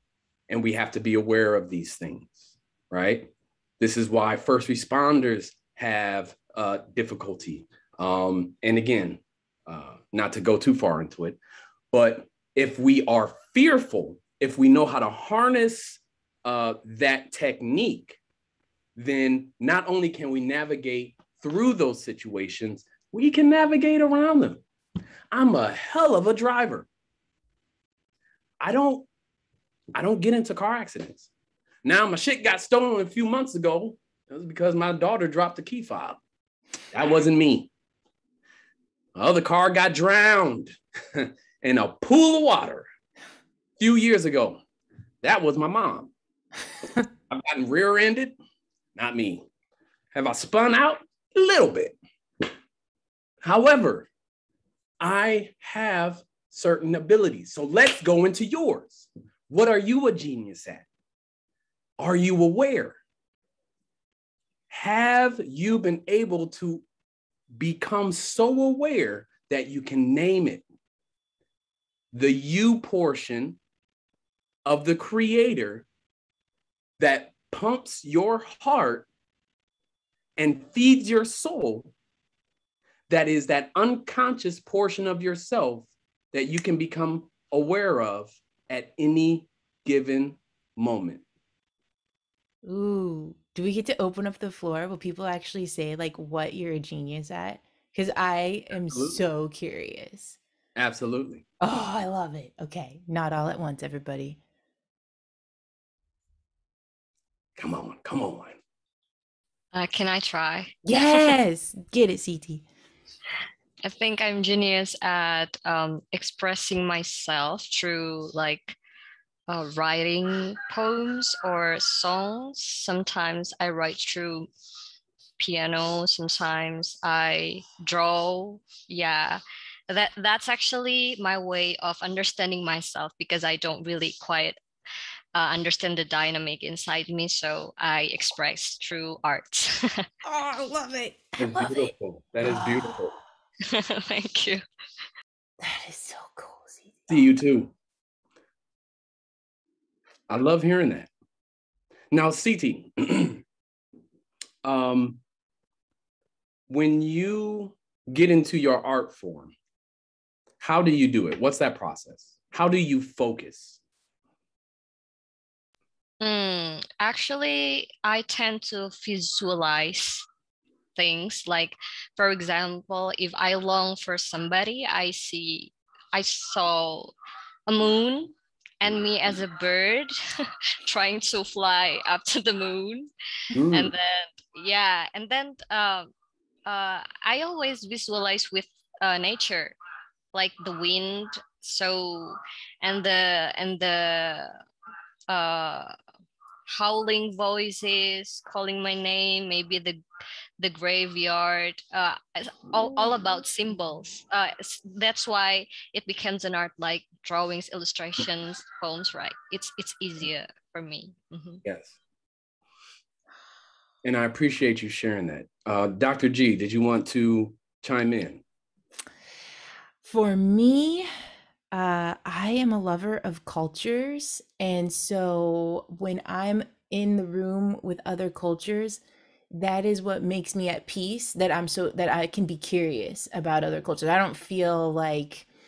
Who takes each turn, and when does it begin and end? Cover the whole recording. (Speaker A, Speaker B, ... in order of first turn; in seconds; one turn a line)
Speaker A: 0.5-11.4
Speaker A: 11.9-18.2
Speaker A: 19.0-24.6
Speaker A: 25.3-26.9
Speaker A: 28.6-29.1
Speaker A: 29.9-31.3
Speaker A: 31.8-36.2
Speaker A: 36.9-37.7
Speaker A: 39.1-42.9
Speaker A: 43.8-44.6
Speaker A: 45.2-46.1
Speaker A: 47.3-48.4
Speaker A: 49.0-49.5
Speaker A: 50.1-52.0
Speaker A: 53.4-54.1
Speaker A: 55.0-60.9
Speaker A: 62.0-63.0
Speaker A: 64.7-66.8
Speaker A: 67.5-70.6
Speaker A: 72.1-73.6
Speaker A: 74.7-75.9
Speaker A: 77.0-79.1
Speaker A: 80.4-81.9
Speaker A: 83.1-91.2
Speaker B: 92.6-100.4
Speaker A: 98.9-99.2
Speaker A: 100.8-101.5
Speaker B: 101.6-104.4
Speaker A: 107.6-108.6
Speaker C: 109.7-111.3
Speaker B: 110.9-112.6
Speaker C: 113.8-118.8
Speaker C: 119.5-124.5
Speaker C: 125.4-134.6
Speaker C: 135.3-140.1
Speaker B: 140.2-141.9
Speaker A: 141.4-143.1
Speaker B: 142.4-143.0
Speaker C: 143.7-144.6
Speaker B: 145.6-147.3
Speaker A: 147.1-147.7
Speaker A: 150.3-151.1
Speaker A: 152.1-153.4
Speaker A: 154.6-155.2
Speaker A: 156.7-159.5
Speaker A: 160.6-163.8
Speaker C: 166.2-170.3
Speaker C: 171.0-177.1
Speaker C: 177.7-183.1
Speaker A: 183.5-183.9
Speaker C: 183.7-186.1
Speaker C: 186.7-189.8
Speaker C: 190.3-194.6
Speaker C: 195.3-195.9
Speaker C: 196.7-200.0
Speaker C: 200.6-211.6
Speaker A: 211.7-211.9
Speaker A: 214.0-218.4
Speaker B: 220.0-221.1
Speaker B: 221.7-229.0
Speaker B: 229.5-235.5